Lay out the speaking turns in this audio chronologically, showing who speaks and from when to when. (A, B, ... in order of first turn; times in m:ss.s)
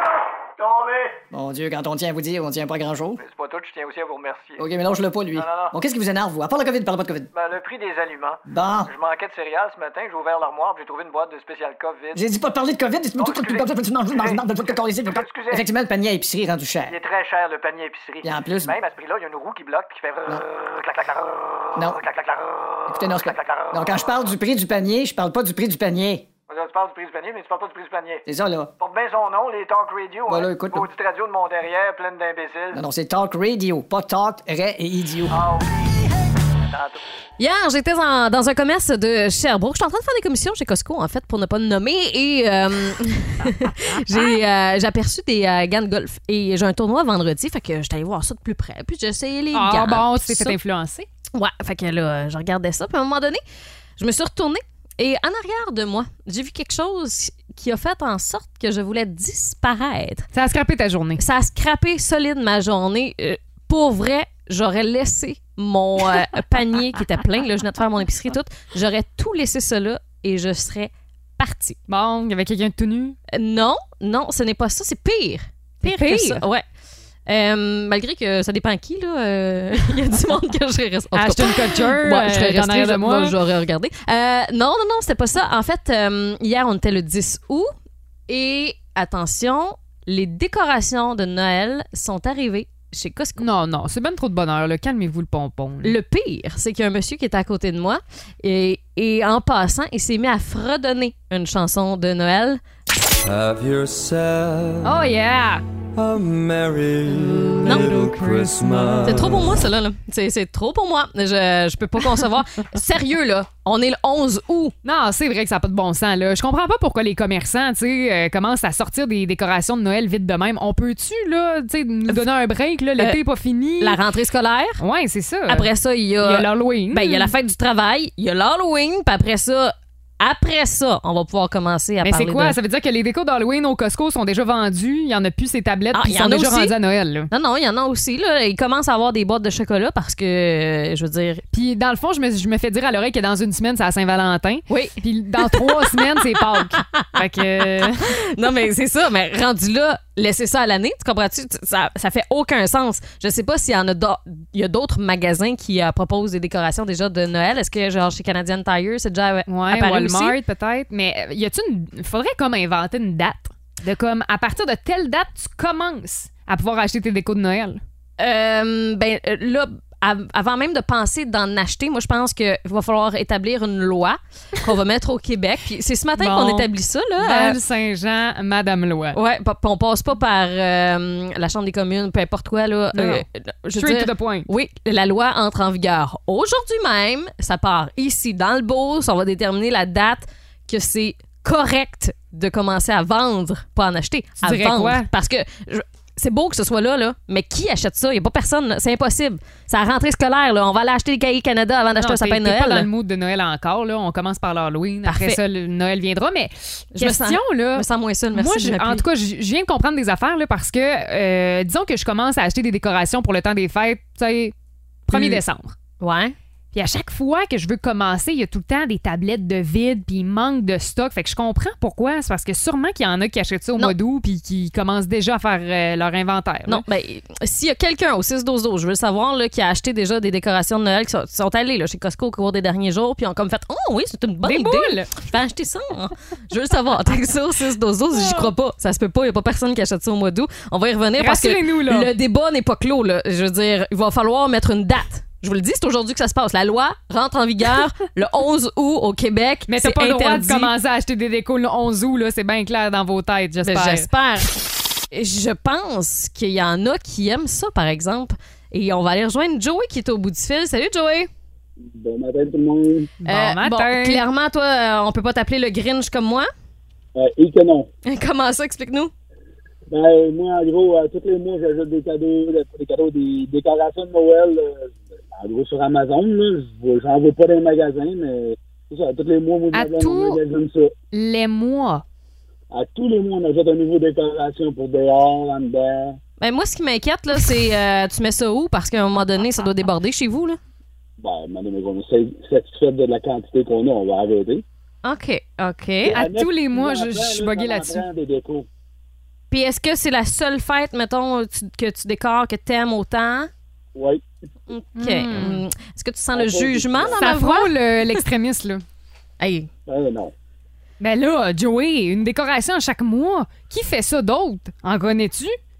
0:00.6-0:01.2 A
0:01.3-0:03.2 B
0:03.2-0:04.7 A
0:04.6-0:07.3 B
0:05.3-0:05.8 A
0:07.3-0:12.2 A
0:08.5-0:08.9 B
0:12.2-0:17.0 B
0:13.2-0:14.4 A
0:15.0-0:15.7 A
0:16.9-0:24.1 A
0:18.2-0:18.8 B
0:22.9-0:26.3 B
0:26.5-0:28.2 A
0:28.3-0:28.7 B
0:28.8-0:32.8 A
0:30.3-0:30.9 B
0:32.7-0:35.4 B
0:35.3-0:36.1 A
0:36.7-0:37.0 A
0:37.4-0:50.6 C
0:49.5-0:51.1 D
0:51.3-0:53.4 C
0:54.0-1:00.3 C
1:00.3-1:01.2 D
1:01.2-1:11.8 C
1:11.9-1:13.2 D
1:13.3-1:16.6 C
1:15.8-1:16.4 D
1:17.3-1:27.7 C
1:21.1-1:23.4 D
1:28.3-1:33.5 C
1:33.4-1:35.9 D
1:35.8-1:42.6 C
1:43.2-1:45.1 E
1:44.8-1:45.6 D
1:46.0-1:49.5 E
1:47.6-1:48.5 C
1:49.0-1:54.8 C
1:54.8-2:04.0 D
2:03.8-2:04.8 C
2:04.8-2:05.7 D
2:05.5-2:12.6 C
2:06.2-2:07.3 D
2:12.0-2:17.3 D
2:15.9-2:16.8 C
2:17.3-2:21.4 C
2:21.5-2:28.1 D
2:24.7-2:26.0 C
2:26.8-2:27.1 C
2:27.6-2:40.4 C
2:39.5-2:47.8 D
2:48.2-2:57.6 C
2:56.2-2:59.2 D
2:59.1-3:22.9 C
3:02.9-3:03.2 D
3:03.8-3:04.5 D
3:14.4-3:15.1 D
3:22.0-3:34.6 D
3:25.0-3:25.4 C
3:26.9-3:29.1 C
3:35.1-3:35.8 D
3:35.1-3:35.4 C
3:36.0-3:36.4 C
3:36.7-3:46.8 D
3:46.7-4:10.7 C
3:54.4-3:55.1 D
3:58.2-3:58.5 D
4:01.2-4:02.1 D
4:09.7-4:14.1 D
4:13.6-4:14.6 C
4:15.1-4:21.3 C
4:21.8-4:23.1 F
4:23.2-4:24.2 D
4:23.3-4:26.5 C
4:27.2-4:27.9 F
4:28.0-4:29.1 C
4:29.9-4:40.9 F
4:39.7-4:40.4 D
4:41.1-4:42.0 D
4:42.7-4:46.2 F
4:46.4-4:50.6 C
4:51.2-4:54.6 F
4:55.0-4:56.2 C
4:56.0-4:58.7 F
4:56.2-4:58.0 D
4:59.5-5:03.5 C
5:04.0-5:04.2 F
5:04.7-5:07.8 C
5:05.0-5:05.6 D
5:06.3-5:07.3 F
5:07.2-5:08.8 D
5:09.4-5:09.7 C
5:09.9-5:10.3 F
5:11.0-5:15.6 D